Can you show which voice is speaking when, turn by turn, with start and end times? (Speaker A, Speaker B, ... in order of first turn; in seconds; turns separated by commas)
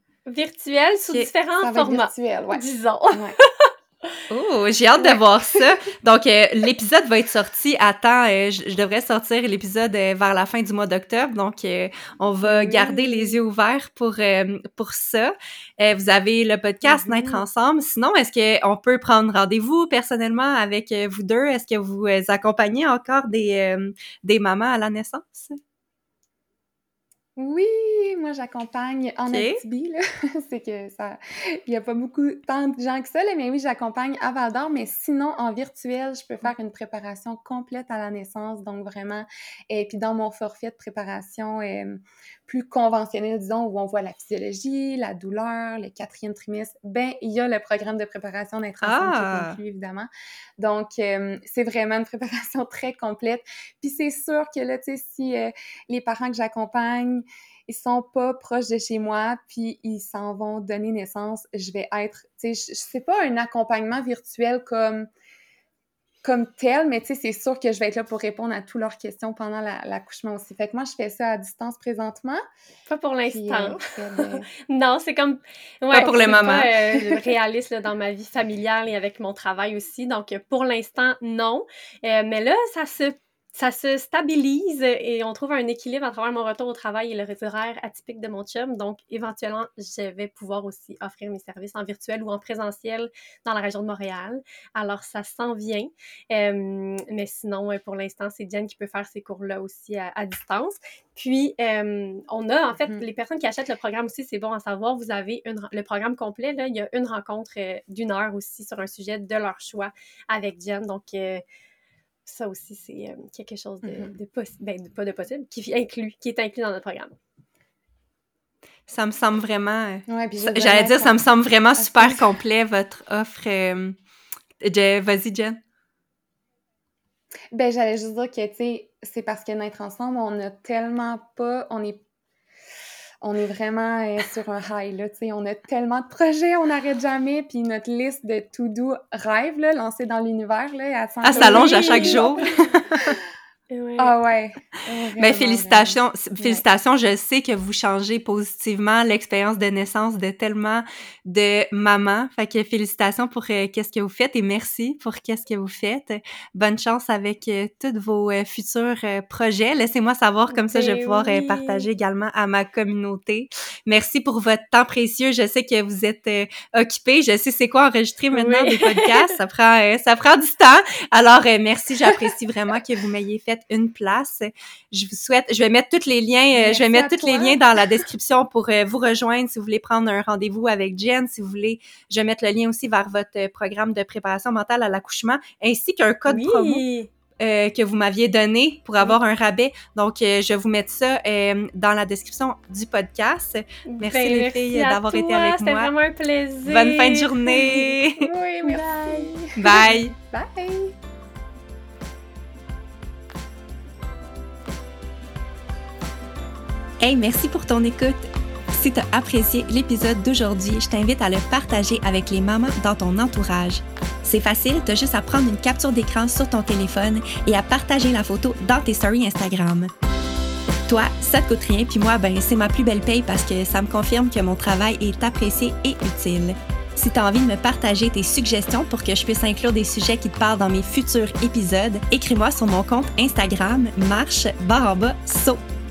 Speaker A: 0.3-4.2, Speaker B: 1.6-3.4, Speaker C: 4.3-25.6, Speaker B: 5.1-5.6, Speaker B: 12.4-13.4, Speaker B: 16.9-17.4, Speaker B: 27.4-65.1, Speaker C: 29.3-29.6, Speaker C: 48.8-49.6, Speaker B: 66.2-72.4, Speaker A: 72.9-111.4, Speaker B: 73.3-74.5, Speaker C: 75.9-76.7, Speaker B: 76.0-76.6, Speaker A: 112.3-117.2, Speaker B: 113.8-114.1, Speaker C: 118.9-124.0, Speaker B: 120.1-121.2, Speaker B: 121.8-122.3, Speaker C: 124.6-125.6, Speaker B: 127.5-132.0, Speaker B: 133.2-142.5, Speaker C: 141.2-143.2, Speaker A: 141.3-142.7, Speaker A: 143.7-144.2, Speaker B: 144.0-146.6, Speaker C: 145.2-186.8, Speaker A: 160.5-161.9, Speaker A: 168.3-169.3, Speaker B: 176.5-177.6, Speaker A: 186.3-187.1, Speaker C: 187.4-195.9, Speaker A: 193.9-198.0, Speaker C: 196.7-198.3, Speaker B: 198.2-201.0, Speaker A: 198.6-199.3, Speaker C: 199.6-200.2, Speaker C: 207.0-219.9, Speaker C: 220.9-235.6